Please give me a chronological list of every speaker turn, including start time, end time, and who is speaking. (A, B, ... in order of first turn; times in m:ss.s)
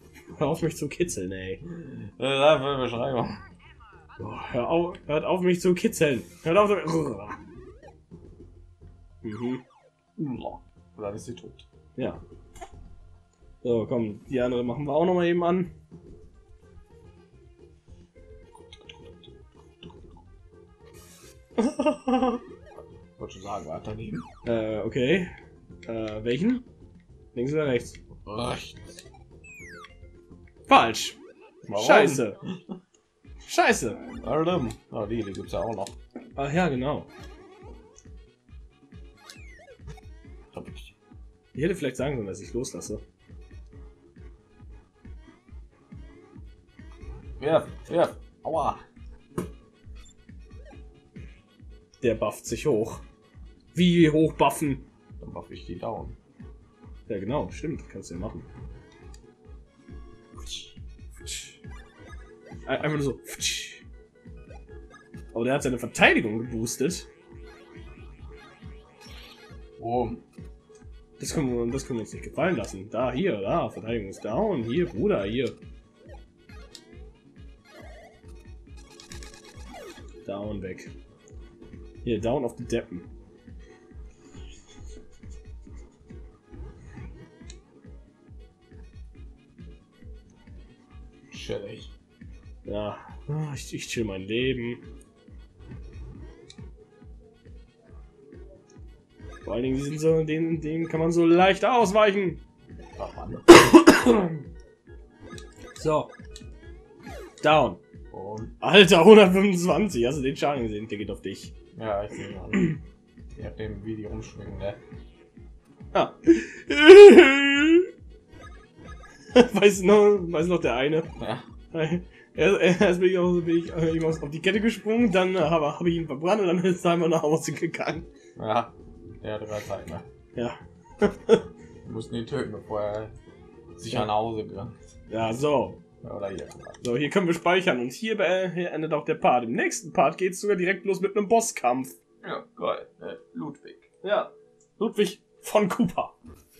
0:00.4-0:01.6 A
0:01.6-0:03.4 B
0:04.2-0:07.4 A
0:09.2-0:09.6 A
0:10.2-0:11.6 B
0:13.6-0:15.7 A
0:18.5-0:19.9 B
0:21.6-0:22.4 A
0:23.2-0:24.3 B
0:24.4-0:25.3 A
0:25.8-0:26.6 A
0:27.3-0:28.0 A
0:28.2-0:29.0 B
0:30.7-0:31.2 A
0:31.6-0:32.8 B
0:31.7-0:32.4 A
0:33.4-0:34.0 A
0:34.1-0:36.0 B
0:36.4-0:37.1 A
0:40.5-0:40.9 B
0:41.5-0:43.0 A
0:47.4-0:48.8 B
0:52.0-0:53.0 A
0:53.7-0:54.8 A
0:55.2-0:56.2 B
0:57.1-0:58.5 A
1:01.2-1:01.5 A
1:02.6-1:03.8 A
1:05.3-1:07.1 A
1:09.8-1:10.2 B
1:11.2-1:15.6 A
1:20.2-1:20.9 A
1:22.0-1:23.0 A
1:31.3-1:31.9 B
1:32.6-1:34.8 A
1:39.4-1:42.4 A
1:43.0-1:43.6 B
1:43.5-1:44.4 A
1:45.7-1:46.1 A
1:47.4-1:47.8 A
1:48.1-1:48.5 B
1:48.6-1:51.5 A
1:51.7-1:52.8 B
1:53.3-1:54.8 B
1:55.9-1:57.9 A
1:59.3-2:01.1 A
2:01.2-2:01.4 B
2:01.7-2:08.1 A
2:08.4-2:10.1 B
2:10.3-2:11.4 A
2:11.8-2:13.1 B
2:13.8-2:14.8 B
2:15.1-2:15.8 A
2:16.0-2:17.0 B
2:16.8-2:21.9 A
2:22.2-2:23.9 B
2:24.0-2:26.1 A